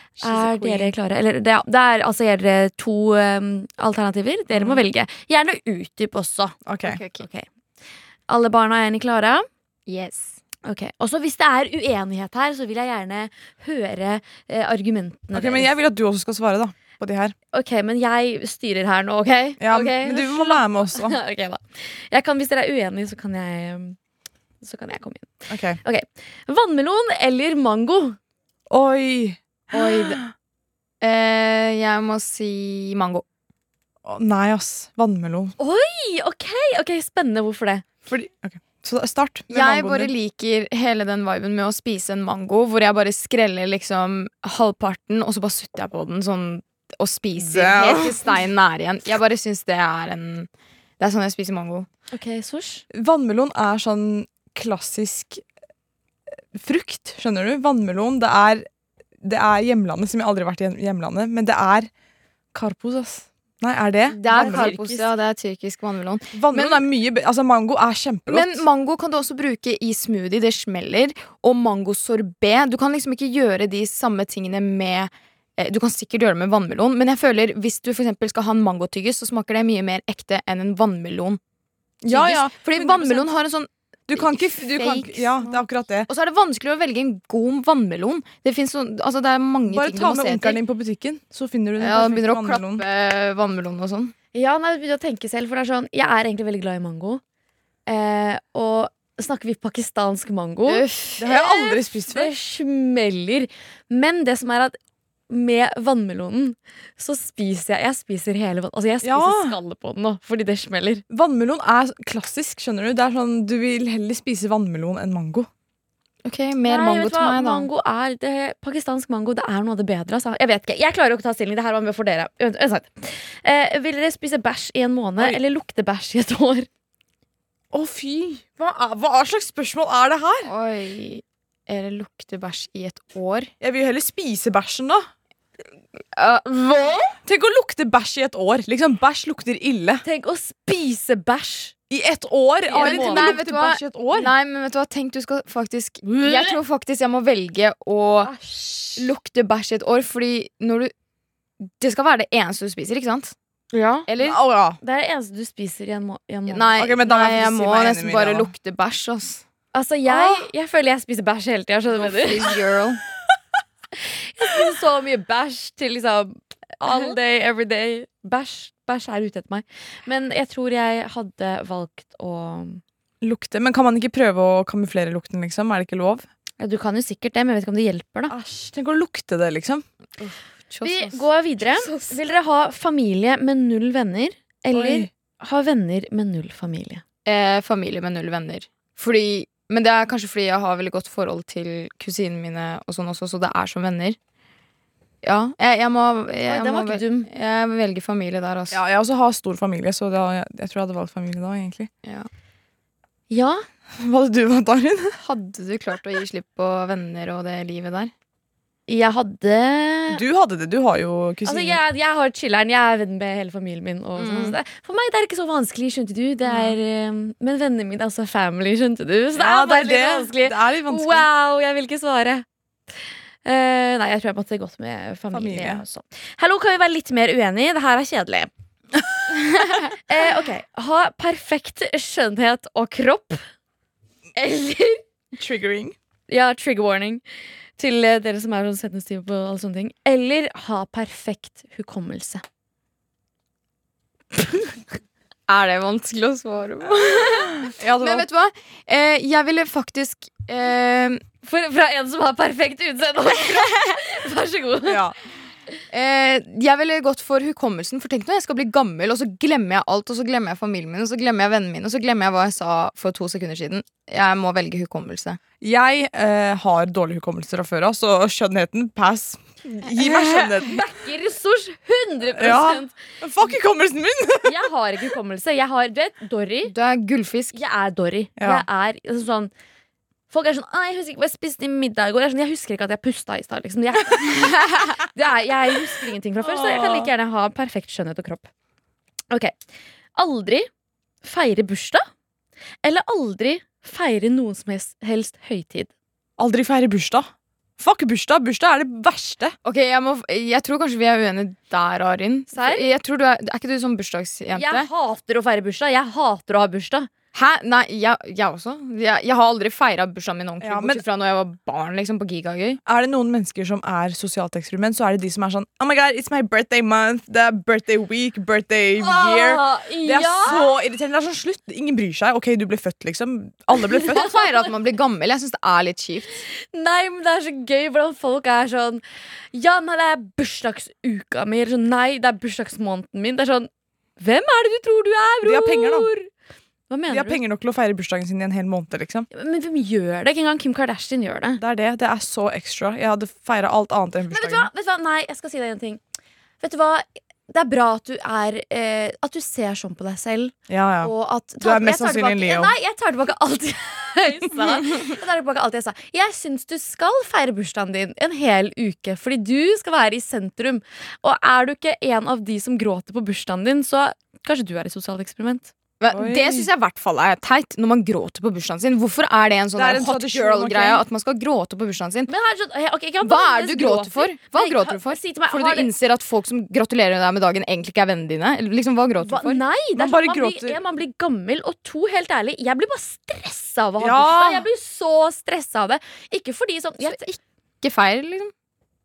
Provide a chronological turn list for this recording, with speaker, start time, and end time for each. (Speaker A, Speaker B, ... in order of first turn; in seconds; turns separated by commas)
Speaker A: 0.2-0.9, Speaker B: 0.2-6.6, Speaker C: 6.6-7.0, Speaker A: 6.8-7.3, Speaker B: 7.2-7.5, Speaker B: 8.3-9.5, Speaker A: 9.9-10.4, Speaker B: 10.6-15.7, Speaker C: 15.3-17.3, Speaker B: 17.5-24.0, Speaker C: 19.6-21.2, Speaker B: 24.6-28.2, Speaker C: 25.5-25.8, Speaker C: 28.7-29.8, Speaker A: 29.7-30.2, Speaker A: 31.0-33.2, Speaker C: 34.0-35.5, Speaker B: 35.6-37.9, Speaker C: 38.1-40.1, Speaker A: 39.5-51.9, Speaker C: 47.4-48.3, Speaker B: 52.1-52.8, Speaker C: 52.9-55.4, Speaker C: 56.5-58.6, Speaker C: 59.2-61.9, Speaker C: 62.5-65.1, Speaker A: 64.1-66.9, Speaker C: 66.3-68.6, Speaker A: 68.3-81.4, Speaker C: 82.0-83.3, Speaker A: 82.1-90.6, Speaker C: 84.1-86.1, Speaker C: 89.7-92.8, Speaker A: 91.8-94.1, Speaker B: 94.3-97.2, Speaker B: 97.9-104.8, Speaker A: 100.7-101.4, Speaker C: 101.2-102.3, Speaker B: 105.3-111.0, Speaker C: 109.0-109.6, Speaker C: 111.1-115.5, Speaker A: 116.2-117.7, Speaker B: 116.7-126.7, Speaker C: 127.7-130.5, Speaker A: 130.4-133.5, Speaker C: 133.6-135.1, Speaker A: 136.1-137.2, Speaker C: 137.2-140.0, Speaker B: 140.0-141.7, Speaker C: 141.9-144.3, Speaker B: 142.7-143.3, Speaker A: 142.8-148.3, Speaker C: 146.1-146.5, Speaker B: 148.3-149.0, Speaker A: 148.9-150.9, Speaker A: 151.8-154.4, Speaker B: 153.8-154.0, Speaker C: 154.2-154.8, Speaker B: 154.8-156.7, Speaker A: 156.5-159.4, Speaker C: 156.8-158.5, Speaker B: 159.7-162.5, Speaker A: 161.9-163.0, Speaker B: 164.0-172.8, Speaker C: 173.2-176.2, Speaker B: 176.6-178.3, Speaker C: 178.3-179.8, Speaker A: 180.7-181.2, Speaker B: 180.8-187.0, Speaker C: 184.7-185.1, Speaker A: 187.2-194.2, Speaker A: 195.2-198.8, Speaker B: 196.5-197.3, Speaker C: 198.7-201.9, Speaker B: 203.3-203.6, Speaker C: 203.9-205.2, Speaker A: 205.2-208.1, Speaker B: 208.9-210.2, Speaker C: 210.1-211.8, Speaker B: 211.4-222.4, Speaker A: 214.2-214.6, Speaker C: 219.3-221.2, Speaker B: 223.4-228.5, Speaker C: 225.3-225.8, Speaker B: 230.1-233.4, Speaker B: 234.3-235.0, Speaker C: 235.3-235.9, Speaker B: 236.3-237.2, Speaker B: 237.8-242.4, Speaker A: 245.5-251.2, Speaker C: 247.7-248.3, Speaker B: 251.4-255.0, Speaker C: 254.9-255.2, Speaker A: 255.9-265.4, Speaker C: 265.6-270.8, Speaker B: 270.6-272.9, Speaker C: 272.4-274.6, Speaker B: 274.4-276.7, Speaker A: 276.7-277.5, Speaker B: 277.5-279.5, Speaker C: 278.4-278.6, Speaker B: 280.3-288.5, Speaker C: 286.4-287.1, Speaker B: 289.3-289.5, Speaker B: 290.1-290.7, Speaker B: 291.2-292.0, Speaker B: 292.8-295.9, Speaker C: 296.4-299.5, Speaker A: 299.6-304.9, Speaker B: 302.5-302.9, Speaker B: 304.5-307.1, Speaker A: 307.3-312.8, Speaker C: 310.6-311.0, Speaker C: 312.9-324.4, Speaker B: 319.0-320.7, Speaker A: 324.1-326.4, Speaker B: 326.6-329.0, Speaker B: 329.5-336.3, Speaker C: 335.4-336.1, Speaker B: 336.9-337.4, Speaker C: 337.1-339.3, Speaker B: 339.3-341.6, Speaker C: 341.6-344.7, Speaker B: 344.3-346.0, Speaker B: 346.6-365.7, Speaker C: 350.7-352.7, Speaker A: 366.0-372.3, Speaker C: 366.1-366.7, Speaker C: 369.7-371.0, Speaker B: 372.3-375.9, Speaker A: 373.2-379.6, Speaker B: 379.2-387.4, Speaker C: 380.0-380.8, Speaker C: 384.0-384.7, Speaker A: 387.8-388.5